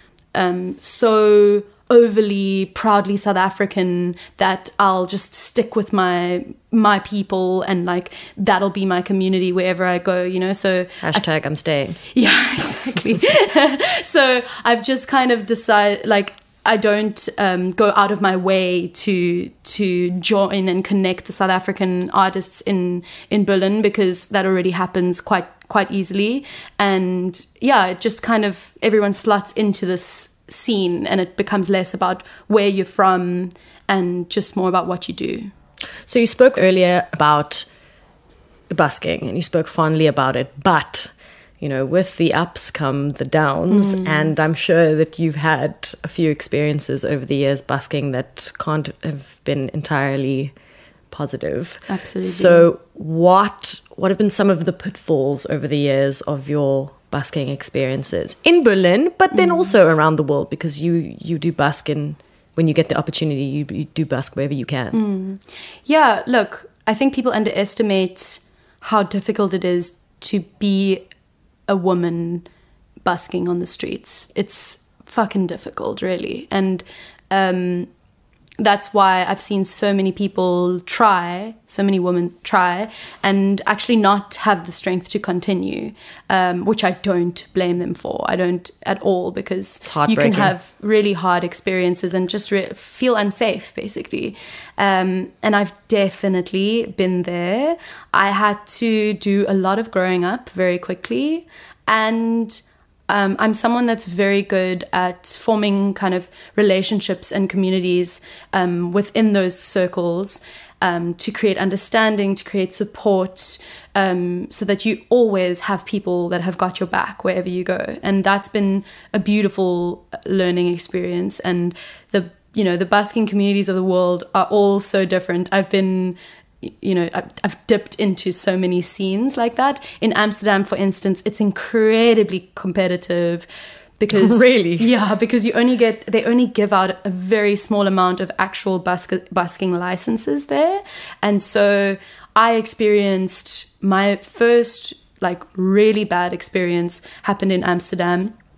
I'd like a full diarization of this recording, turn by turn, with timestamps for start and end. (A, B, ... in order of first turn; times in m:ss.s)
0:00.3-0:11.2 A
0:11.0-0:12.0 B
0:12.1-0:35.5 A
0:36.1-0:37.7 B
0:38.7-0:50.5 B
0:43.7-0:44.3 A
0:51.1-1:05.0 B
0:51.9-0:52.7 A
0:59.3-0:59.7 A
1:04.9-1:11.0 A
1:11.7-1:12.5 A
1:13.0-1:17.9 A
1:18.6-2:13.5 A
1:29.9-1:30.6 B
2:14.0-2:28.4 A
2:14.2-2:14.9 B